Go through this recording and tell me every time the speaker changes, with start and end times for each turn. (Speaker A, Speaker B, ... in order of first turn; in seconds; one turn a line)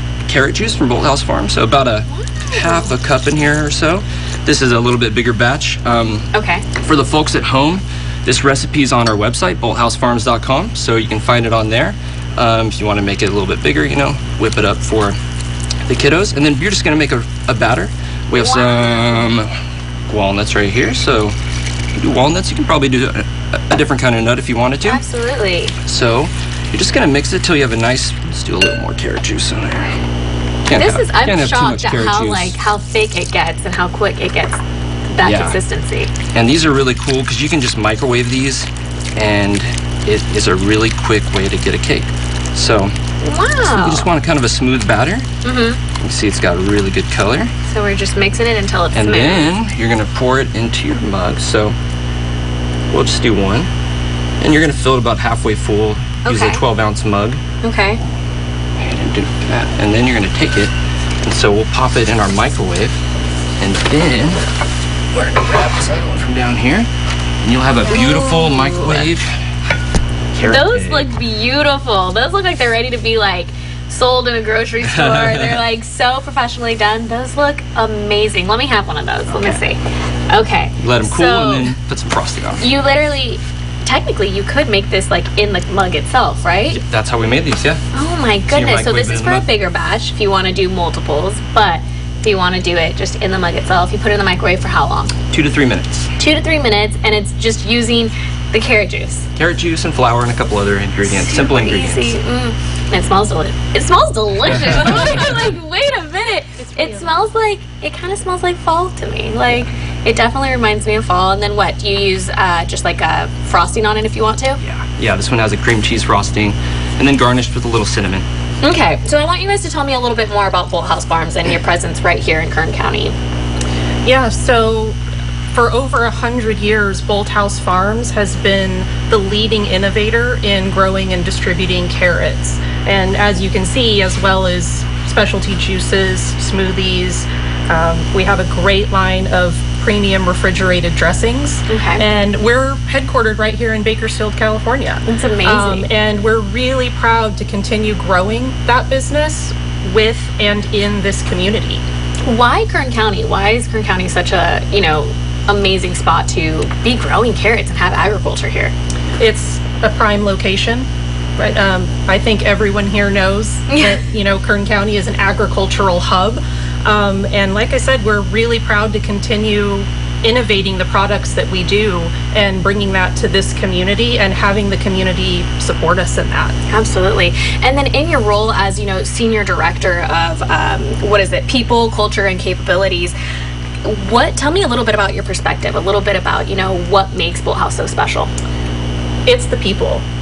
Speaker A: 0.2-15.2
Speaker B: 2.1-2.9
Speaker B: 6.3-6.6
Speaker A: 15.8-19.5
Speaker B: 18.4-19.3
Speaker A: 20.1-21.3
Speaker A: 22.0-25.0
Speaker B: 24.8-25.8
Speaker A: 25.8-29.9
Speaker A: 30.7-32.6
Speaker B: 30.7-34.6
Speaker B: 35.1-36.1
Speaker A: 35.2-35.6
Speaker A: 36.3-42.9
Speaker B: 43.2-44.1
Speaker A: 43.6-45.3
Speaker B: 45.4-45.8
Speaker A: 46.0-47.5
Speaker B: 47.6-49.5
Speaker A: 48.9-51.8
Speaker A: 52.9-53.7
Speaker A: 54.4-57.4
Speaker B: 56.2-56.6
Speaker B: 57.6-58.0
Speaker A: 58.8-60.7
Speaker A: 61.2-63.0
Speaker A: 63.6-64.4
Speaker A: 65.1-66.9
Speaker A: 67.4-69.3
Speaker B: 67.9-69.1
Speaker A: 70.3-71.1
Speaker B: 70.4-81.7
Speaker A: 74.8-75.6
Speaker A: 79.3-79.6
Speaker A: 80.8-82.7
Speaker B: 82.6-86.8
Speaker A: 86.7-87.8
Speaker B: 87.9-95.1
Speaker A: 88.5-89.5
Speaker A: 95.3-96.1
Speaker B: 96.2-99.3
Speaker A: 99.3-102.2
Speaker B: 101.0-114.6
Speaker C: 106.6-107.1
Speaker A: 114.6-118.2
Speaker B: 118.6-123.1
Speaker C: 124.0-125.0
Speaker C: 125.5-151.8
Speaker B: 141.7-142.0
Speaker B: 145.1-145.9
Speaker B: 152.2-158.7
Speaker C: 159.2-160.9
Speaker C: 161.4-176.5
Speaker B: 163.7-164.0
Speaker B: 176.7-183.1
Speaker B: 183.8-188.3
Speaker C: 189.2-190.0